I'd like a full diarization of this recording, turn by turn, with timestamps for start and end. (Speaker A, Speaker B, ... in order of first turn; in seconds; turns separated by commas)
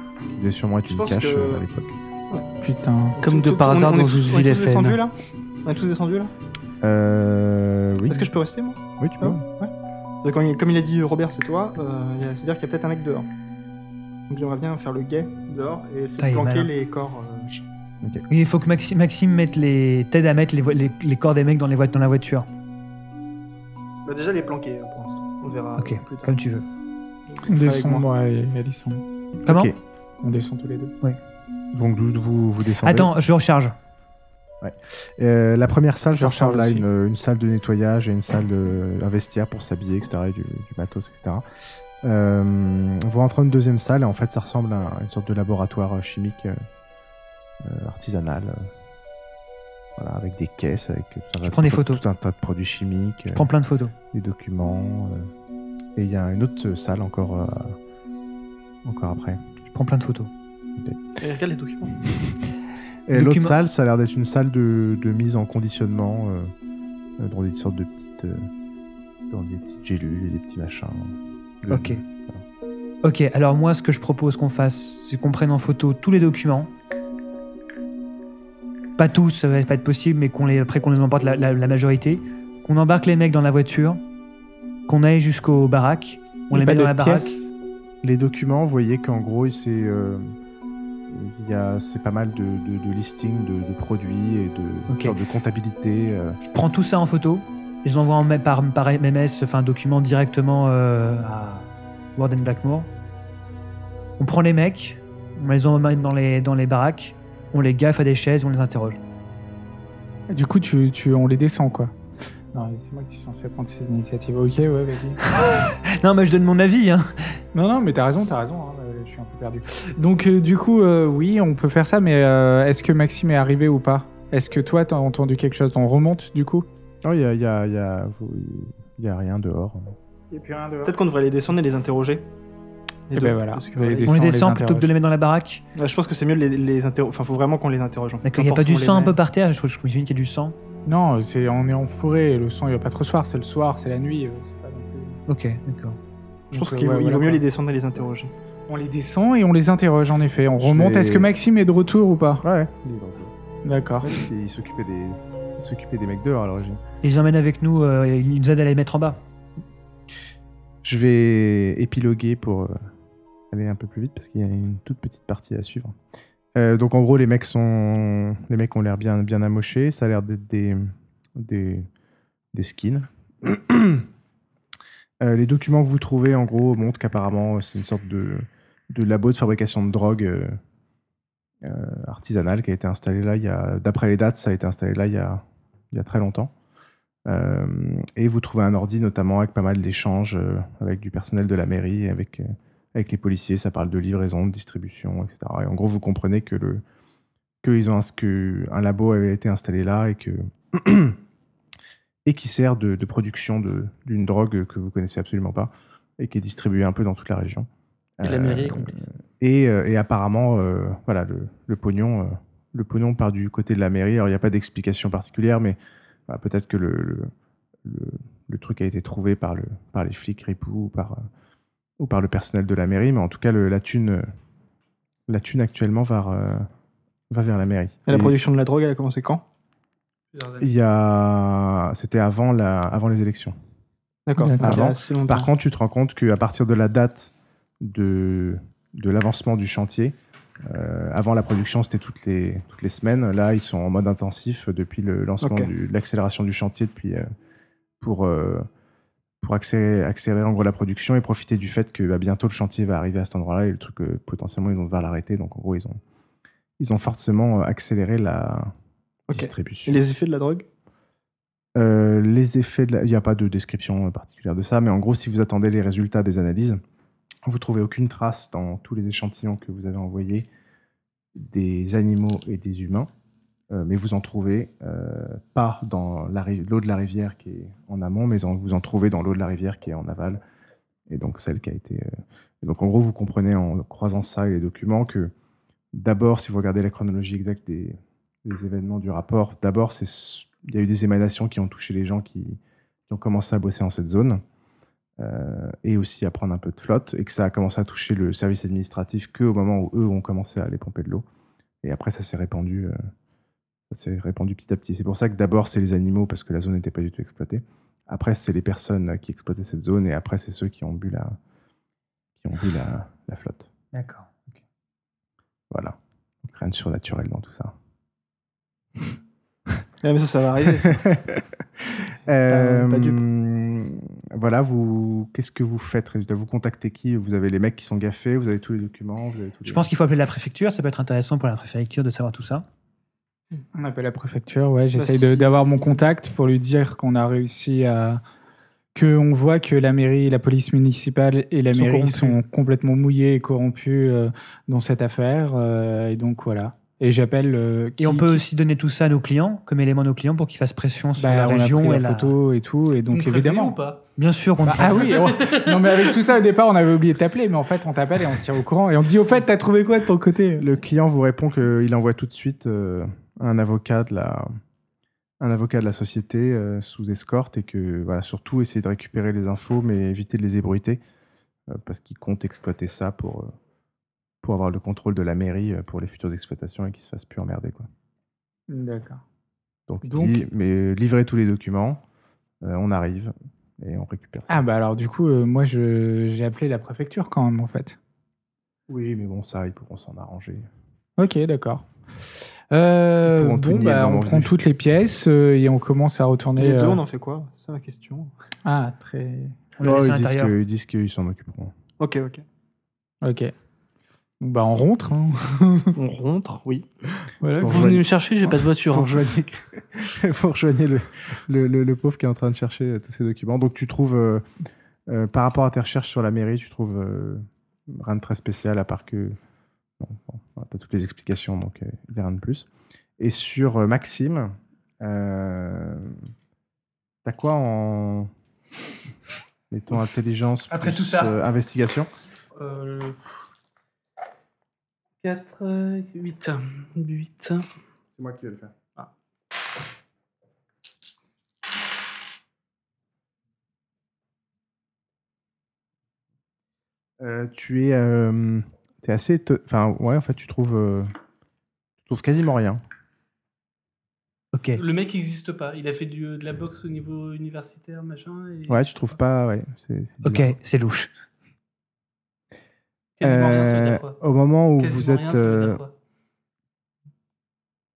Speaker A: 0.4-2.0, Speaker B: 0.9-1.6, Speaker C: 2.6-3.2, Speaker B: 3.2-6.3, Speaker D: 3.2-5.0, Speaker A: 6.8-8.3, Speaker B: 8.1-13.3, Speaker A: 9.0-9.4, Speaker B: 14.3-17.6, Speaker E: 16.2-16.7, Speaker E: 18.3-22.5, Speaker B: 24.1-26.4, Speaker E: 25.8-26.6, Speaker B: 27.3-28.1, Speaker C: 27.4-29.0, Speaker A: 29.4-29.8, Speaker E: 29.5-29.7, Speaker C: 30.2-30.9, Speaker A: 31.7-33.1, Speaker E: 32.8-33.8, Speaker A: 34.6-41.4, Speaker C: 36.2-36.9, Speaker A: 42.0-46.6, Speaker A: 47.6-48.7, Speaker A: 50.0-53.5, Speaker E: 51.4-52.0, Speaker E: 53.3-53.9, Speaker A: 54.1-55.3, Speaker A: 56.0-57.8, Speaker A: 58.8-59.4, Speaker E: 59.7-60.3, Speaker A: 60.8-61.2, Speaker B: 61.2-62.0, Speaker A: 63.1-66.5, Speaker E: 63.1-63.6, Speaker A: 67.2-68.5, Speaker A: 69.3-72.4, Speaker E: 71.7-72.0, Speaker E: 73.0-76.7, Speaker E: 79.0-84.0, Speaker E: 84.9-87.4, Speaker C: 86.5-87.5, Speaker A: 88.0-90.3, Speaker A: 91.1-96.4, Speaker E: 94.9-95.2, Speaker E: 96.5-102.9, Speaker E: 104.2-109.0, Speaker C: 110.3-111.9, Speaker C: 112.5-115.2, Speaker E: 115.3-117.1, Speaker C: 117.5-126.7, Speaker A: 127.0-130.0, Speaker C: 130.3-131.0, Speaker B: 130.8-132.2, Speaker B: 133.1-134.2, Speaker C: 133.1-134.9, Speaker E: 134.1-135.6, Speaker B: 135.8-139.2, Speaker E: 138.2-140.6, Speaker C: 140.9-145.2, Speaker E: 145.3-146.0, Speaker C: 146.5-147.4, Speaker B: 146.5-148.3, Speaker C: 148.7-152.4, Speaker A: 150.6-151.3, Speaker A: 152.4-153.3, Speaker C: 153.7-154.2, Speaker A: 154.0-156.8, Speaker E: 157.0-159.2, Speaker A: 160.8-162.8, Speaker A: 163.5-165.9, Speaker A: 166.6-171.9, Speaker A: 172.5-174.1, Speaker A: 175.2-180.6, Speaker A: 181.6-186.5, Speaker A: 187.3-196.8, Speaker A: 197.6-201.2, Speaker A: 202.2-207.7, Speaker A: 208.2-217.3, Speaker D: 208.2-209.1, Speaker A: 217.8-221.2, Speaker A: 222.0-224.3, Speaker A: 225.3-226.7, Speaker A: 227.3-228.4, Speaker B: 228.1-229.4, Speaker D: 230.3-230.7, Speaker A: 230.6-233.6, Speaker B: 234.3-235.5, Speaker C: 234.4-234.9, Speaker A: 234.6-247.3, Speaker B: 245.4-245.7, Speaker A: 248.0-248.7, Speaker A: 249.4-256.0, Speaker A: 256.8-258.7, Speaker B: 259.3-260.7, Speaker A: 259.3-260.0, Speaker A: 261.8-266.8, Speaker A: 267.4-270.5, Speaker A: 271.4-273.1, Speaker A: 273.7-280.4, Speaker A: 281.1-282.1, Speaker A: 282.6-285.3, Speaker A: 285.9-294.4, Speaker A: 295.2-301.2, Speaker A: 301.8-303.0, Speaker A: 303.9-311.4, Speaker A: 312.4-313.7, Speaker E: 313.9-314.6, Speaker A: 315.7-317.7, Speaker B: 320.0-321.2, Speaker A: 320.8-329.9, Speaker B: 322.5-323.2, Speaker E: 329.7-332.7, Speaker C: 333.8-338.2, Speaker B: 334.9-335.9, Speaker C: 338.9-348.4, Speaker E: 341.7-342.4, Speaker E: 348.0-352.4, Speaker C: 351.2-353.8, Speaker D: 353.1-354.0, Speaker E: 354.2-355.4, Speaker C: 354.6-360.7, Speaker D: 355.1-356.1, Speaker A: 360.6-364.5, Speaker A: 365.4-371.0, Speaker A: 371.7-373.5, Speaker A: 374.4-377.9, Speaker C: 378.7-379.2, Speaker A: 379.9-382.0, Speaker C: 380.1-380.4, Speaker A: 382.6-384.6, Speaker C: 384.5-388.0, Speaker A: 388.9-390.7, Speaker C: 391.2-391.9, Speaker C: 392.7-397.0, Speaker A: 393.2-394.6, Speaker B: 396.6-398.3, Speaker C: 398.6-399.6, Speaker E: 399.8-400.6, Speaker A: 399.8-401.8, Speaker B: 402.0-402.4, Speaker C: 403.2-403.5, Speaker C: 404.4-406.0, Speaker B: 405.9-406.9, Speaker C: 407.4-407.9, Speaker A: 407.5-408.1, Speaker D: 407.6-409.2, Speaker A: 408.9-414.4, Speaker A: 415.1-419.4, Speaker A: 420.0-422.7, Speaker A: 423.2-426.2, Speaker A: 427.2-428.3, Speaker A: 429.7-432.1, Speaker E: 430.7-431.4, Speaker D: 432.6-433.4, Speaker D: 435.2-437.7, Speaker A: 438.1-438.7, Speaker A: 447.2-451.1, Speaker A: 452.1-452.8, Speaker E: 454.5-454.8, Speaker D: 454.8-459.1, Speaker A: 458.7-460.6, Speaker E: 460.2-461.1, Speaker D: 463.2-464.2, Speaker A: 463.2-465.8, Speaker D: 464.8-465.9